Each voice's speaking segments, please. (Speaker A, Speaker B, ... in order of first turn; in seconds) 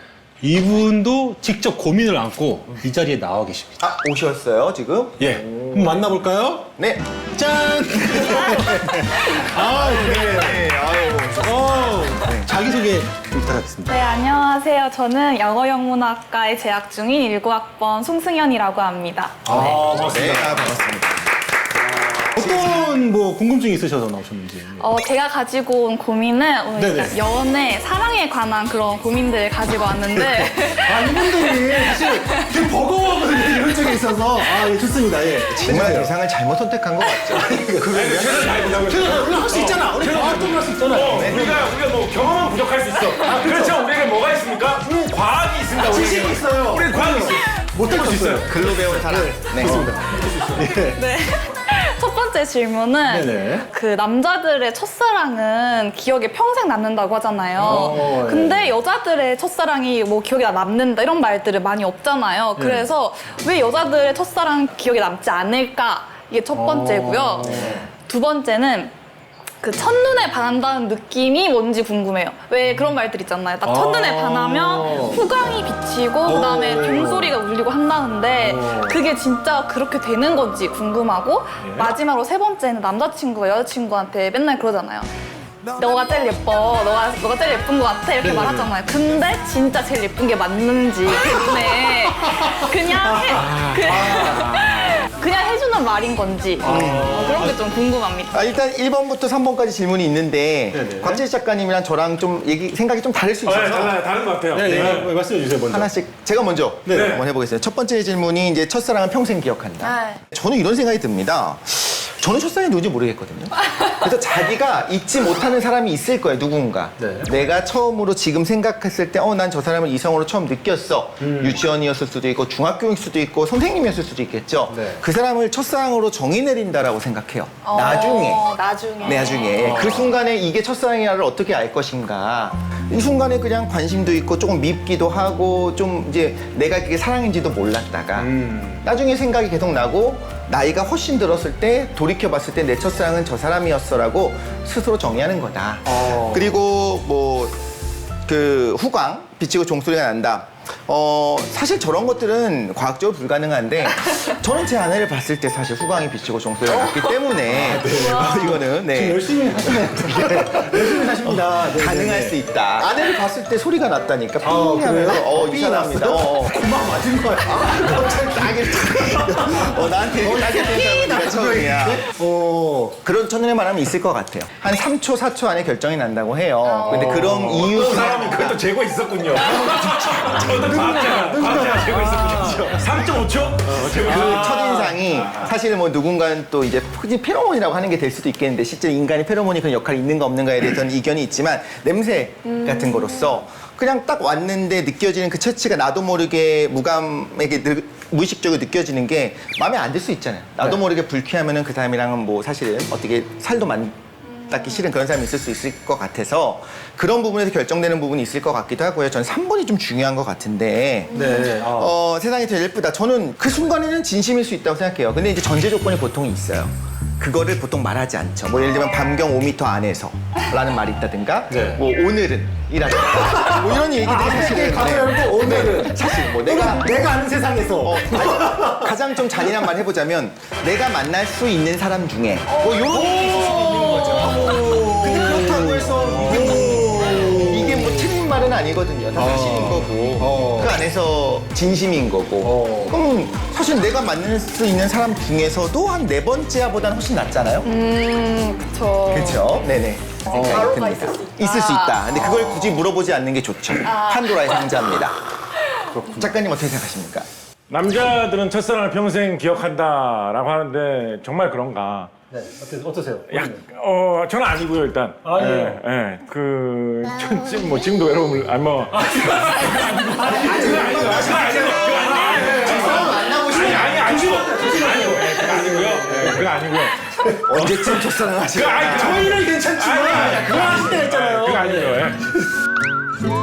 Speaker A: 0.4-3.8, 5.2-6.7, 7.3-10.8, 11.4-14.0, 19.4-20.8, 21.9-24.9, 26.8-27.2, 30.1-36.1, 37.3-37.9, 38.8-41.6, 43.2-43.9, 44.8-45.2, 45.7-51.0, 53.0-53.7, 57.6-58.7, 62.6-62.9, 66.5-67.8, 73.6-75.3, 76.2-77.4, 78.4-79.0, 88.2-88.7, 91.7-93.4, 96.6-97.6, 100.7-101.2, 104.5-105.9, 106.8-107.2, 117.0-117.3, 121.2-121.6, 124.7-125.0, 129.6-130.1, 138.2-138.8, 145.8-146.5, 157.5-162.4, 164.4-173.0, 179.7-183.1, 183.9-184.8, 211.1-211.9, 221.5-221.8, 223.0-229.7, 232.7-238.1, 239.2-240.8, 242.4-243.0, 250.3-250.7, 255.9-256.3, 262.3-263.6, 265.2-265.8, 268.9-276.5, 277.1-277.4, 278.8-282.3
Speaker B: 3.8-5.3, 6.8-7.0, 9.6-12.5, 19.5-21.2, 22.4-22.9, 35.5-38.5, 41.1-41.5, 48.4-49.9, 67.4-67.8, 93.9-94.2, 96.6-97.3, 98.3-104.0, 104.6-105.1, 105.6-128.4, 129.0-147.5, 148.2-166.6, 167.4-172.1, 173.0-178.6, 179.4-180.5, 184.0-227.1, 227.8-247.7, 249.1-255.2, 256.1-257.3, 270.2-274.2, 277.4-279.3
Speaker C: 5.3-5.8, 37.9-48.5, 93.3-95.0, 103.4-105.1, 106.9-107.2, 176.9-185.5, 257.7-262.1, 263.3-282.3
Speaker D: 8.2-9.6, 13.9-19.4, 24.8-32.6, 50.8-68.9, 69.6-85.1, 85.8-98.5, 109.8-110.2, 127.6-129.8, 156.8-157.1, 157.9-158.4, 176.6-177.4, 179.4-179.7, 192.4-193.3, 211.1-211.5, 247.6-249.4, 250.2-252.5, 253.8-254.8, 255.6-255.9